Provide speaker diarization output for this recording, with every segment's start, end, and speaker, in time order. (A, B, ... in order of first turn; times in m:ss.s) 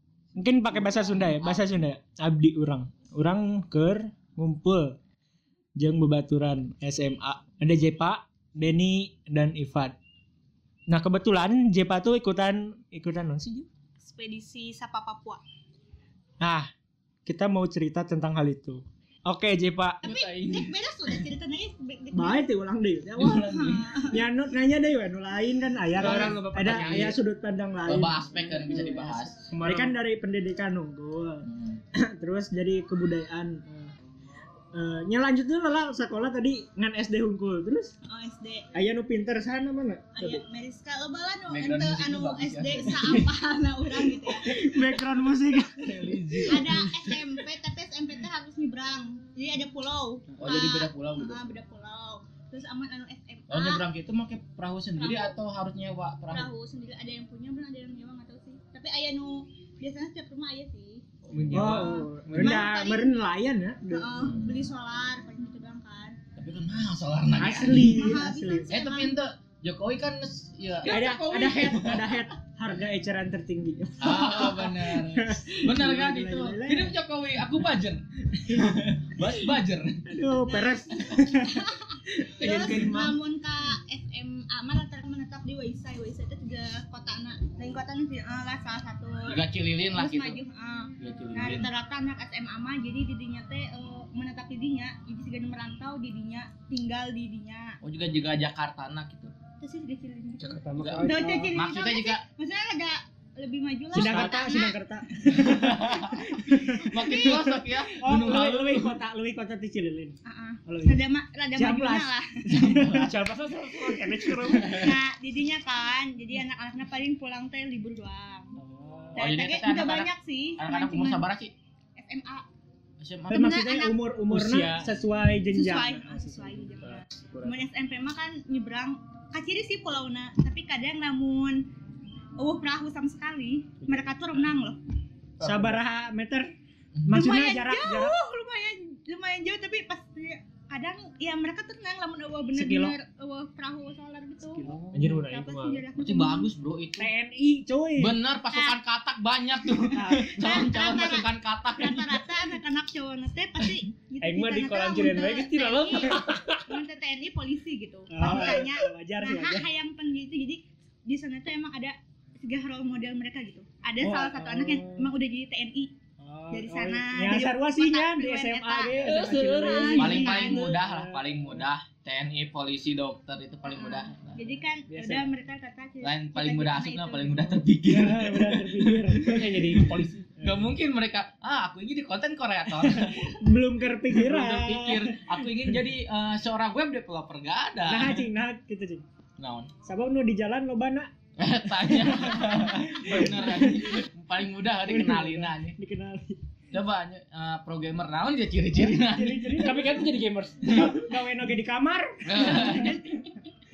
0:00.4-0:05.0 A
0:00.6-0:01.8 B
0:05.8-0:10.0 A
0:10.9-0:13.7 A
0:14.0-0:15.4 C
0:16.4-0:16.7 A
0:17.2-0:20.0 A
0:20.0-0:21.2 B
0:20.0-0:22.5 C
0:22.1-0:33.9 A
0:23.2-0:23.8 B
0:23.2-0:24.2 C
0:25.9-0:27.2 D
0:26.0-0:27.1 B
0:27.8-0:29.4 B
0:29.5-0:30.0 D
0:31.4-0:31.8 B
0:34.7-0:37.9 A
0:38.0-0:38.7 C
0:38.7-0:40.4 A
0:40.1-0:44.5 C
0:41.5-0:43.3 B
0:44.1-0:46.7 A
0:45.7-0:47.4 B
0:46.4-0:53.8 C
0:50.4-0:51.4 B
0:53.5-0:56.5 B
0:55.0-0:55.4 C
0:56.3-1:01.0 C
1:01.2-1:01.9 B
1:01.3-1:02.6 D
1:01.5-1:04.2 A
1:01.6-1:03.1 C
1:03.9-1:06.2 C
1:04.2-1:04.7 B
1:06.4-1:08.1 B
1:07.4-1:08.8 A
1:07.8-1:09.2 C
1:08.7-1:12.2 B
1:10.8-1:17.0 A
1:14.0-1:20.1 B
1:20.0-1:23.2 A
1:20.5-1:20.8 C
1:21.3-1:29.4 C
1:29.3-1:30.4 B
1:29.9-1:37.8 C
1:31.0-1:31.7 B
1:37.8-1:39.3 B
1:39.6-1:44.8 C
1:40.4-1:41.4 D
1:40.8-1:42.2 B
1:40.9-1:41.6 A
1:43.9-1:50.1 A
1:43.9-1:44.6 D
1:45.3-1:49.0 B
1:47.0-1:47.5 C
1:50.2-1:52.4 C
1:50.7-1:51.0 A
1:51.6-1:54.9 A
1:52.5-1:53.3 B
1:52.9-1:55.0 D
1:54.4-1:54.9 B
1:54.5-1:58.5 C
1:58.6-1:59.3 A
1:59.2-2:01.2 C
1:59.2-2:01.5 B
2:02.0-2:02.4 C
2:03.0-2:03.4 B
2:03.3-2:06.3 A
2:03.3-2:04.0 C
2:04.3-2:05.0 D
2:05.5-2:11.6 C
2:06.3-2:07.6 D
2:12.4-2:14.8 C
2:13.8-2:14.5 D
2:15.4-2:15.8 D
2:15.4-2:16.5 A
2:17.0-2:18.2 A
2:17.1-2:26.5 C
2:22.5-2:23.0 A
2:24.5-2:25.2 A
2:24.6-2:25.0 B
2:24.9-2:25.8 D
2:26.0-2:27.1 B
2:27.0-2:28.2 A
2:28.0-2:32.5 B
2:28.5-2:28.8 C
2:29.9-2:30.7 A
2:30.4-2:45.9 C
2:34.2-2:36.8 D
2:38.1-2:39.7 A
2:44.0-2:45.1 A
2:46.2-2:51.6 A
2:46.5-2:50.7 C
2:49.0-2:50.8 D
2:50.0-2:54.5 B
2:53.7-2:57.6 C
2:54.9-2:55.3 A
2:56.0-2:59.8 B
2:57.8-2:59.8 A
2:59.2-3:00.3 D
3:00.4-3:00.7 A
3:00.4-3:03.4 B
3:02.8-3:05.8 A
3:04.1-3:08.3 B
3:07.8-3:09.0 A
3:09.4-3:09.7 B
3:09.8-3:11.1 A
3:11.4-3:15.8 B
3:11.8-3:14.0 A
3:14.8-3:16.4 A
3:16.7-3:19.9 B
3:18.7-3:20.0 A
3:19.6-3:20.8 D
3:20.6-3:21.0 B
3:20.7-3:23.1 A
3:22.2-3:23.0 B
3:22.4-3:23.0 C